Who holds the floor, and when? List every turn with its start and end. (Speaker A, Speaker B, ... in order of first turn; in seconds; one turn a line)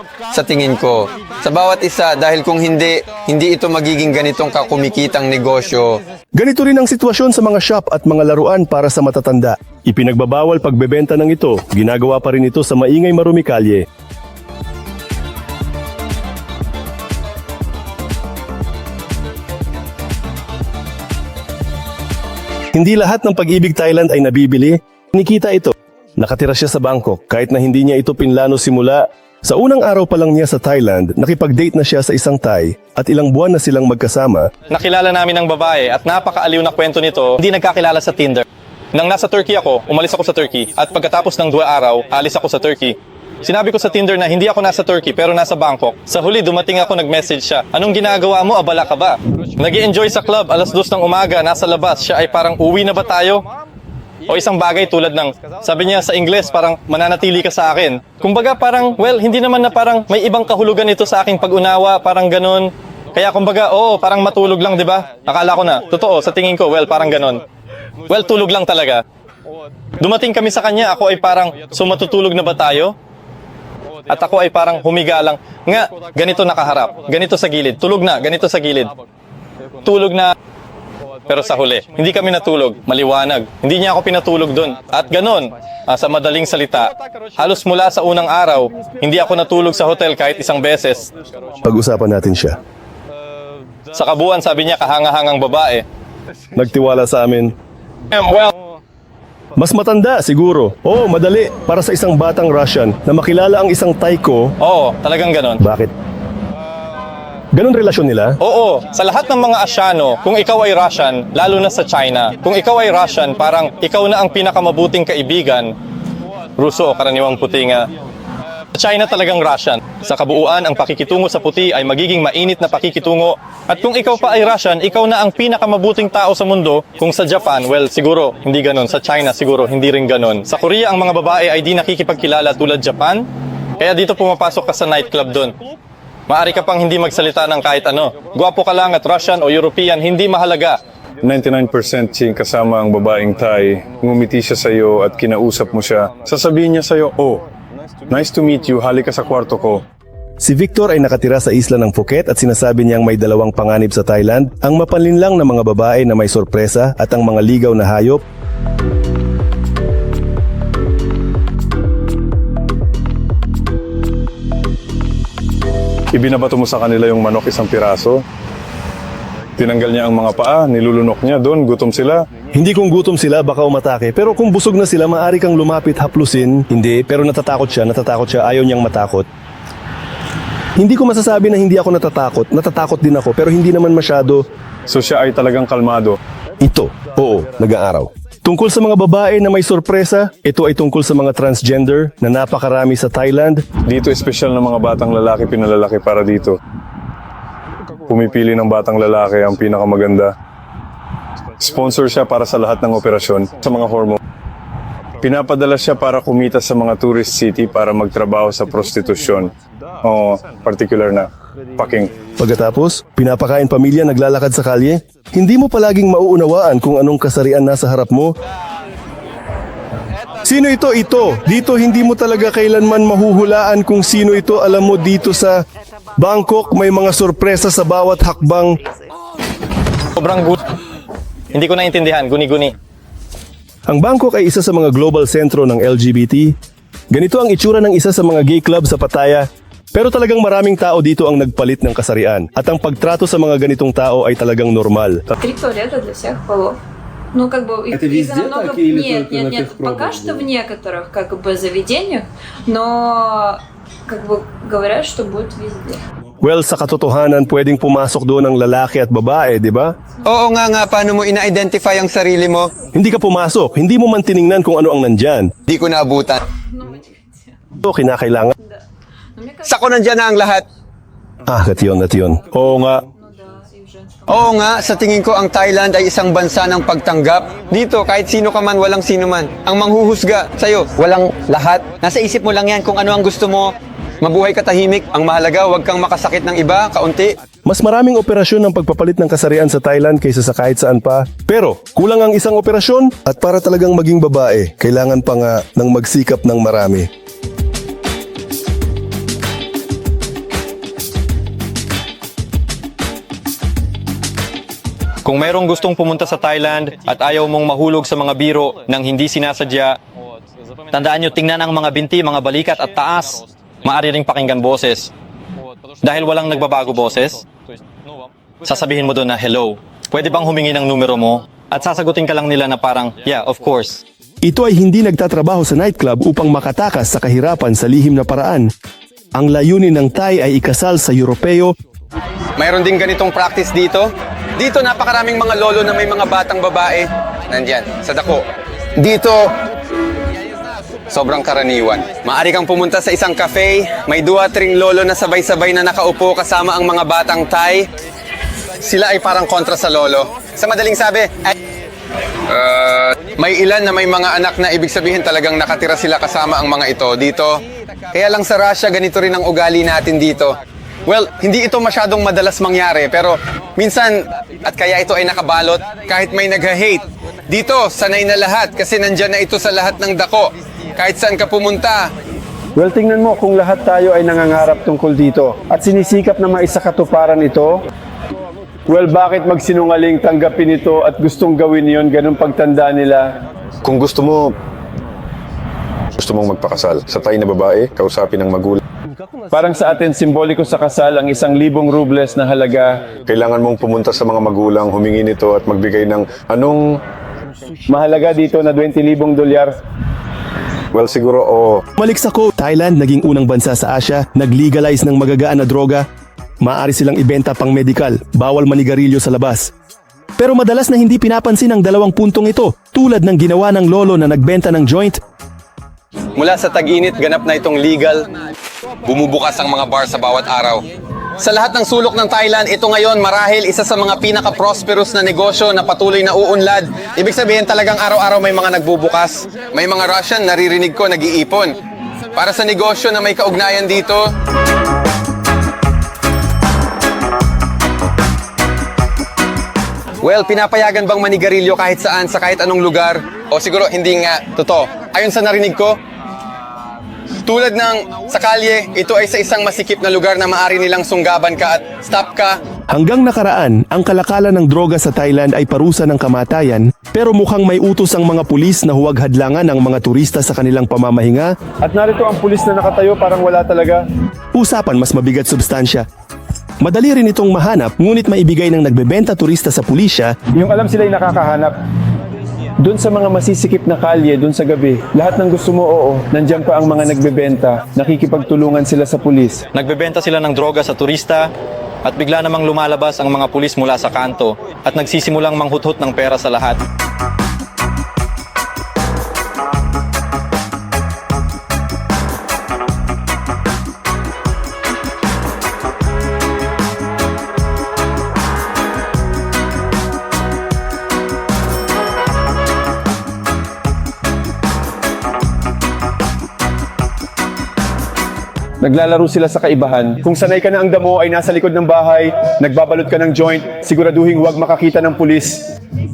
Speaker A: 0.3-6.0
Speaker B: 6.4-13.9
Speaker B: 22.7-34.5
Speaker C: 34.7-53.4
Speaker C: 54.3-67.4
Speaker C: 68.1-69.0
Speaker C: 70.0-72.9
Speaker C: 74.1-78.9
Speaker C: 79.8-80.3
Speaker C: 81.3-91.1
Speaker B: 91.6-92.6
Speaker C: 93.9-95.8
Speaker B: 96.5-97.5
Speaker C: 98.1-98.5
Speaker B: 99.6-104.5
Speaker C: 104.6-105.6
Speaker B: 105.6-105.9
Speaker B: 107.5-108.4
Speaker C: 108.4-115.7
Speaker C: 116.6-117.9
Speaker C: 118.7-133.2
Speaker C: 133.8-135.5
Speaker C: 136.3-140.8
Speaker D: 141.2-147.4
Speaker D: 148.1-149.8
Speaker B: 150.4-158.2
Speaker D: 166.1-168.2
Speaker D: 169.6-172.2
Speaker B: 172.5-179.3
Speaker B: 180.8-184.5
Speaker D: 184.9-186.2
Speaker B: 186.6-193.7
Speaker D: 193.8-196.6
Speaker D: 198.1-200.3
Speaker D: 201.6-204.2
Speaker D: 205.2-209.5
Speaker D: 210.0-212.1
Speaker B: 212.4-218.4
Speaker B: 220.4-225.6
Speaker B: 226.2-228.8
Speaker C: 230.2-230.6
Speaker C: 231.5-232.8
Speaker B: 233.9-236.6
Speaker B: 237.1-245.2
Speaker E: 245.4-246.8
Speaker E: 247.3-256.0
Speaker B: 256.4-259.9
Speaker A: 260.2-262.7
Speaker B: 262.9-265.5
Speaker A: 265.7-266.4
Speaker E: 266.7-267.5
Speaker B: 267.8-268.6
Speaker E: 269.4-270.2
Speaker A: 269.7-270.6
Speaker B: 271.5-273.1
Speaker E: 273.1-274.2
Speaker A: 274.3-287.4
Speaker B: 287.6-297.1
Speaker C: 305.2-310.0
Speaker C: 310.9-315.1
Speaker C: 316.0-317.4
Speaker C: 318.6-324.0
Speaker B: 324.4-328.7
Speaker B: 329.4-331.8
Speaker A: 332.6-339.5
Speaker A: 341.1-347.9
Speaker A: 348.8-351.5
Speaker A: 352.5-357.6
Speaker A: 358.1-372.1
Speaker F: 372.8-377.8
Speaker F: 378.9-383.3
Speaker D: 383.9-384.5
Speaker D: 386.2-388.8
Speaker F: 389.5-393.1
Speaker D: 393.2-397.0
Speaker F: 397.9-399.8
Speaker D: 400.9-401.8
Speaker B: 402.0-406.1
Speaker B: 406.6-409.7
Speaker B: 410.4-415.2
Speaker A: 416.4-418.3
Speaker A: 419.1-420.8
Speaker A: 421.4-431.8
Speaker A: 432.4-434.2
Speaker A: 440.2-446.0
Speaker A: 447.5-452.6
Speaker B: 452.9-461.6
Speaker F: 461.8-464.1
Speaker B: 464.5-466.1
Speaker B: 466.8-470.4
Speaker F: 470.5-471.8
Speaker F: 472.8-479.6
Speaker C: 479.7-481.5
Speaker C: 482.1-486.8
Speaker F: 508.8-515.7